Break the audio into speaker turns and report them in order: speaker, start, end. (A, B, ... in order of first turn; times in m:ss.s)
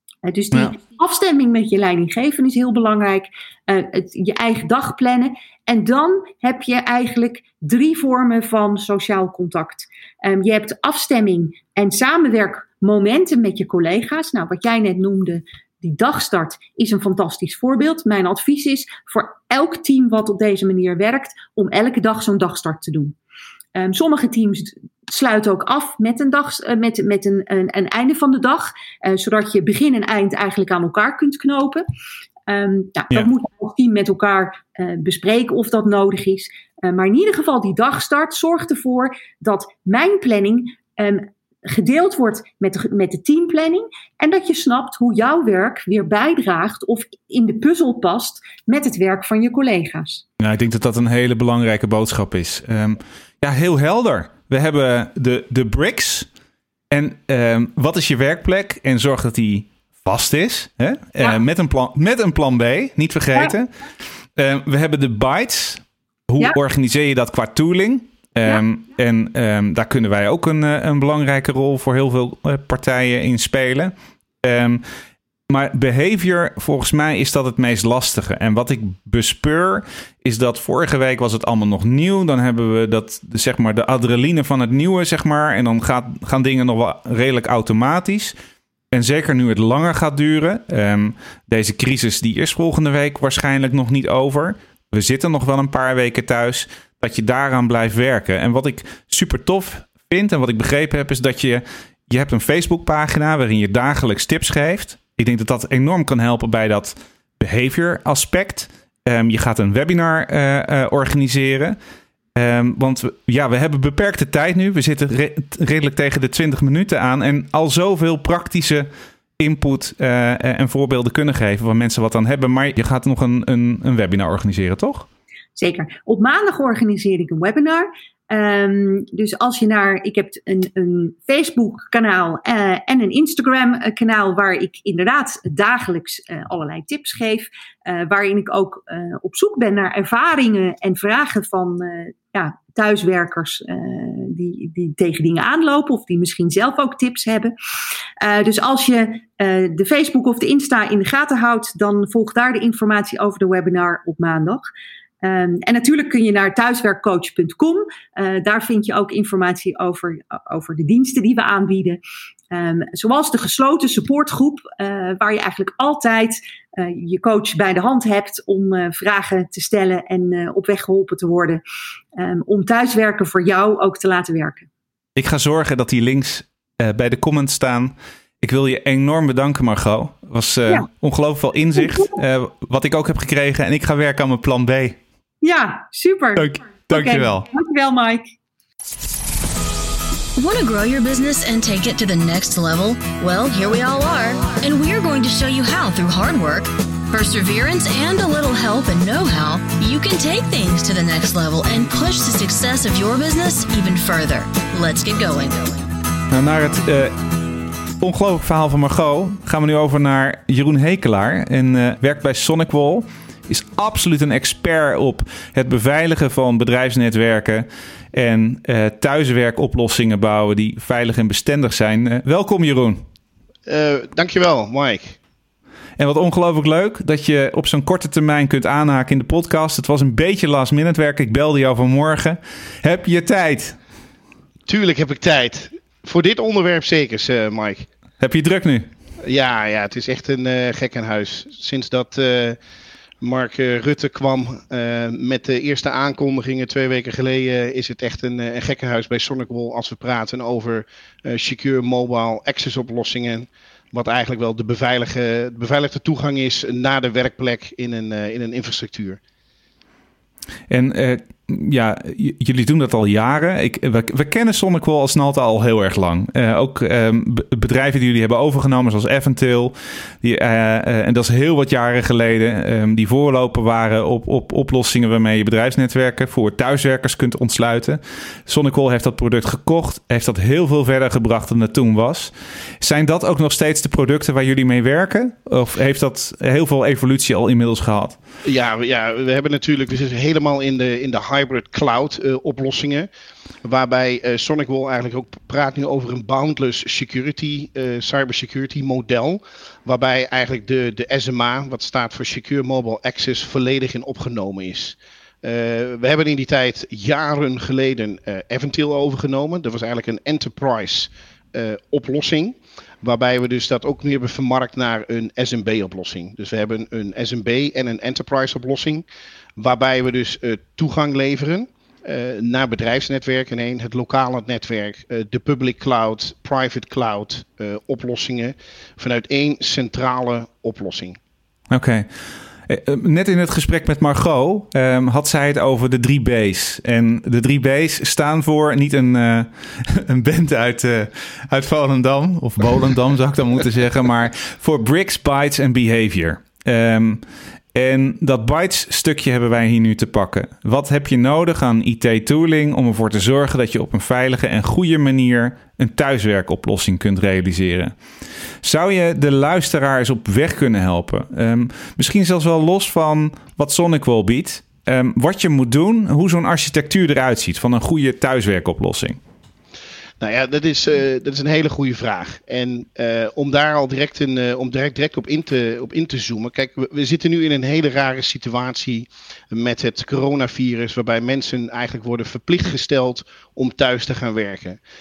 0:00.2-0:23.2 A
0:23.8-0:31.8 A
0:32.5-0:50.2 A
0:50.4-0:56.3 B
0:56.9-1:03.7 B
1:04.4-1:14.8 B
1:15.5-1:28.4 B
1:28.9-1:51.8 B
1:52.4-1:58.9 B
1:59.4-2:05.1 B
2:05.6-2:27.5 A
2:28.2-2:34.6 A
2:35.2-2:42.0 A
2:42.5-2:51.6 A
2:52.2-2:54.7 A
2:55.2-3:05.0 B
3:05.4-3:08.3 A
3:06.4-3:07.5 B
3:10.4-3:25.9 C
3:26.3-3:27.1 B
3:28.0-3:43.0 B
3:43.7-3:45.2 D
3:46.0-3:53.8 B
3:54.7-3:57.9 D
3:58.2-3:58.9 B
3:59.2-4:02.6 D
4:03.2-4:19.2 D
4:20.7-4:48.2 B
4:48.4-4:53.1 D
4:53.6-5:19.0 D
5:19.6-5:31.2 D
5:31.7-5:32.1 B
5:32.7-5:47.2 B
5:47.7-5:58.0 B
5:58.6-6:09.2 B
6:10.2-6:24.8 D